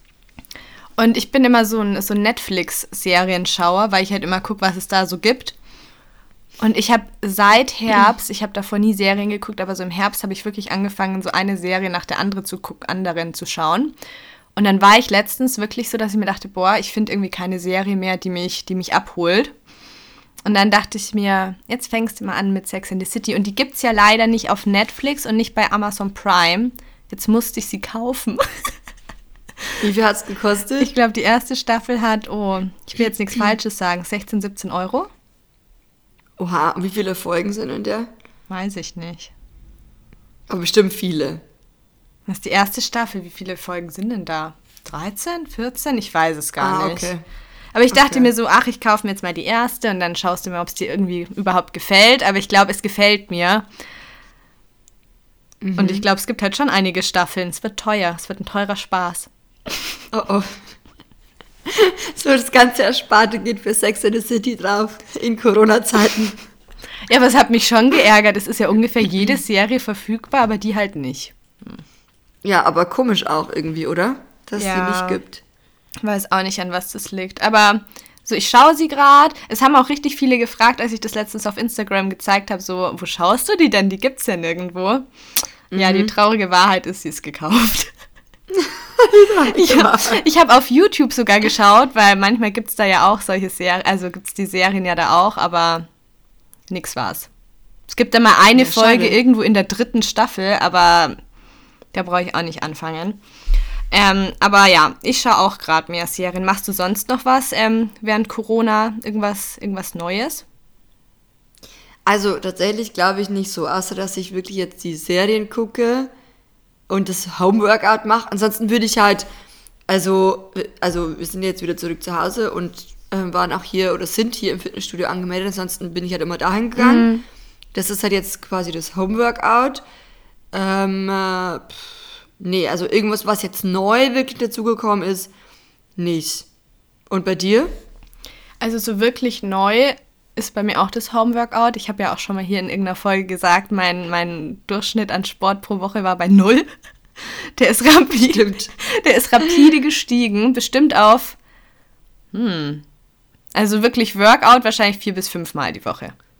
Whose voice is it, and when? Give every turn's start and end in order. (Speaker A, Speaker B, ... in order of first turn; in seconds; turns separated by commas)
Speaker A: 1.0-5.5, Speaker A: 6.6-13.9, Speaker A: 14.6-19.5, Speaker A: 20.4-28.7, Speaker B: 29.8-30.9, Speaker A: 30.8-35.1, Speaker B: 36.4-38.1, Speaker A: 38.5-39.3, Speaker B: 40.5-41.4, Speaker A: 42.3-47.1, Speaker B: 46.6-47.2, Speaker A: 47.7-53.6, Speaker B: 47.9-48.3, Speaker B: 55.6-56.0, Speaker A: 55.8-59.3, Speaker B: 60.1-60.6, Speaker B: 61.6-66.4, Speaker A: 67.1-71.3, Speaker B: 72.4-75.4, Speaker A: 74.6-75.2, Speaker A: 76.0-85.0, Speaker B: 85.7-86.1, Speaker A: 85.7-87.9, Speaker B: 88.5-90.2, Speaker A: 89.5-95.8, Speaker A: 96.7-97.3, Speaker A: 97.9-101.2, Speaker B: 98.5-99.2, Speaker A: 101.9-103.2, Speaker A: 103.9-110.4, Speaker B: 112.0-116.1, Speaker B: 116.9-119.3, Speaker B: 119.9-127.1, Speaker A: 126.8-127.2, Speaker B: 127.7-129.8, Speaker B: 130.5-135.3, Speaker B: 136.0-136.4, Speaker B: 137.1-137.7, Speaker A: 138.6-151.4, Speaker B: 148.3-148.7, Speaker A: 152.3-152.8, Speaker A: 153.5-156.1